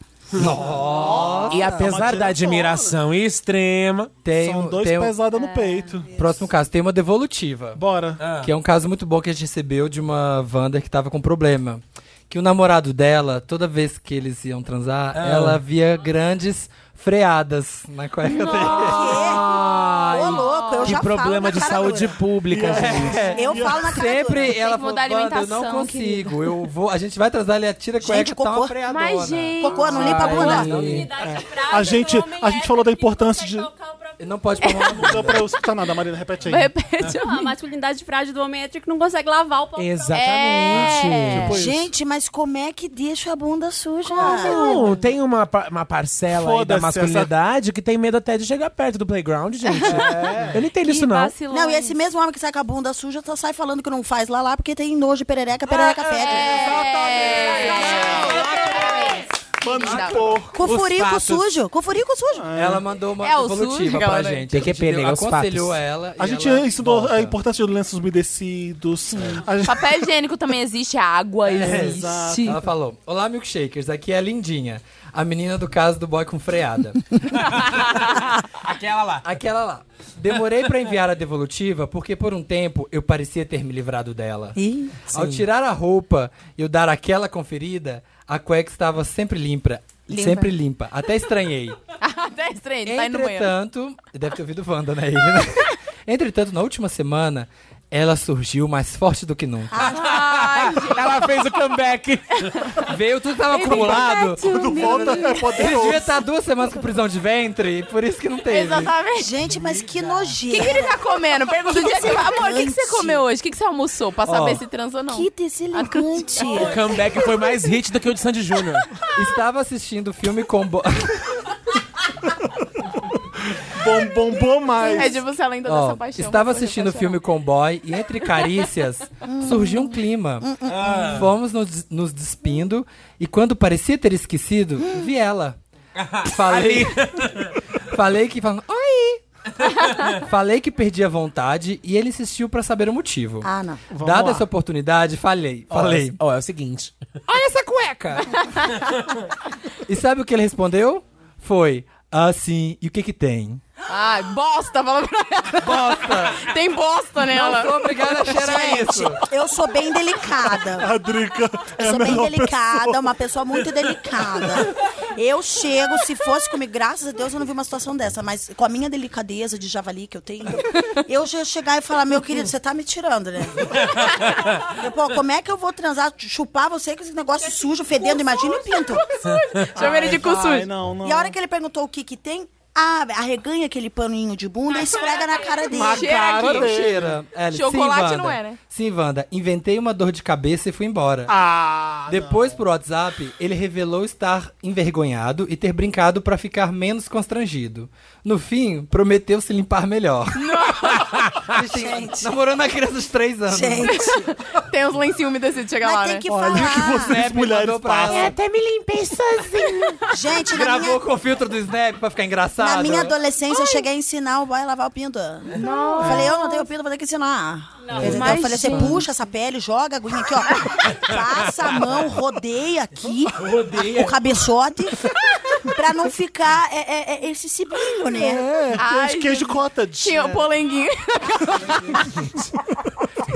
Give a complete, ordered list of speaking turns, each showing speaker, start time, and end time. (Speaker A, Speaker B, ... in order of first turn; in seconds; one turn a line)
Speaker A: 0.3-0.6
Speaker B: 0.4-2.2
Speaker C: 0.4-3.0
Speaker A: 1.5-4.1
Speaker B: 4.2-5.1
Speaker C: 4.3-6.4
Speaker D: 5.3-6.0
Speaker B: 6.1-7.8
Speaker C: 7.8-8.3
Speaker A: 8.2-8.5
Speaker B: 8.3-20.2
Speaker A: 15.2-15.6
Speaker D: 18.2-19.4
Speaker E: 18.8-22.2
Speaker A: 19.2-23.3
Speaker D: 20.3-20.9
Speaker C: 22.5-23.9
Speaker B: 22.6-31.1
Speaker E: 23.3-24.5
Speaker D: 24.5-26.5
Speaker E: 28.0-28.8
Speaker D: 28.9-30.6
Speaker E: 29.6-30.7
Speaker A: 29.9-31.1
Speaker F: 30.5-34.9
Speaker C: 31.2-33.7
Speaker B: 34.2-35.5
Speaker C: 34.9-36.7
Speaker D: 36.5-37.5
Speaker F: 37.2-40.2
Speaker A: 39.8-41.6
Speaker D: 40.1-41.6
Speaker C: 40.9-41.9
Speaker E: 41.5-44.7
Speaker D: 44.1-45.1
Speaker A: 44.2-51.3
Speaker C: 46.3-47.3
Speaker D: 49.7-52.0
Speaker B: 49.9-50.6
Speaker E: 51.5-56.8
Speaker D: 56.2-60.2
Speaker C: 56.4-60.6
Speaker F: 57.6-59.0
Speaker E: 60.5-62.5
Speaker A: 60.6-61.5
Speaker C: 62.4-62.9
Speaker B: 62.5-67.4
Speaker D: 63.2-64.5
Speaker A: 64.5-65.8
Speaker C: 66.2-69.9
Speaker D: 69.2-72.6
Speaker B: 71.5-77.0
Speaker C: 71.6-72.7
Speaker A: 77.4-79.3
Speaker B: 79.2-84.6
Speaker E: 84.6-84.9
Speaker B: 85.1-91.8
Speaker A: 85.1-85.4
Speaker D: 90.1-90.5
Speaker D: 92.0-93.5
Speaker B: 92.8-99.8
Speaker E: 99.7-100.4
Speaker D: 99.9-101.2
Speaker A: 100.0-102.8
Speaker B: 102.8-104.5
Speaker D: 103.5-105.8
Speaker C: 104.5-106.2
Speaker E: 104.9-105.4
Speaker B: 105.5-108.9
Speaker D: 108.5-109.3
Speaker E: 109.2-111.0
Speaker D: 110.5-116.5
Speaker E: 111.7-113.2
Speaker B: 114.3-114.6
Speaker E: 115.1-116.9
Speaker A: 116.5-118.9
Speaker B: 119.2-121.4
Speaker C: 123.7-125.2
Speaker D: 125.0-127.2
Speaker B: 125.7-135.6
Speaker E: 129.2-131.2
Speaker A: 130.7-131.3
Speaker E: 134.8-135.1
Speaker A: 136.0-137.6
Speaker B: 136.2-137.1
Speaker B: 137.9-139.2
Speaker A: 139.8-140.1
Speaker B: 140.1-146.2
Speaker E: 143.4-143.8
Speaker C: 143.9-144.5
Speaker A: 145.7-146.9
Speaker B: 147.3-148.4
Speaker D: 148.5-148.7
Speaker B: 149.9-153.6
Speaker D: 153.9-158.2
Speaker B: 155.6-156.4
Speaker B: 157.2-159.2
Speaker E: 158.3-160.9
Speaker C: 160.7-164.7
Speaker E: 161.8-179.1
Speaker F: 179.1-179.4
Speaker A: 179.3-179.7
Speaker D: 179.6-180.7
Speaker C: 179.7-181.3
Speaker E: 181.0-186.1
Speaker F: 184.8-185.7
Speaker D: 185.7-186.8
Speaker C: 185.7-187.2
Speaker B: 185.9-191.3
Speaker D: 187.5-188.6
Speaker C: 191.3-192.6
Speaker B: 192.1-204.0
Speaker D: 200.3-201.1
Speaker A: 201.1-201.5
Speaker E: 201.6-202.3
Speaker E: 203.5-204.3
Speaker D: 203.8-206.3
Speaker E: 205.8-207.2
Speaker C: 206.3-208.3
Speaker B: 206.6-208.3
Speaker A: 208.1-210.0
Speaker E: 210.1-211.0
Speaker B: 210.4-213.1
Speaker E: 212.6-225.1
Speaker D: 215.6-216.7
Speaker F: 217.8-218.2
Speaker B: 218.0-219.0
Speaker D: 218.0-219.0
Speaker A: 221.1-221.7
Speaker A: 223.3-224.2
Speaker E: 225.7-228.5
Speaker C: 228.1-230.5
Speaker D: 228.8-232.0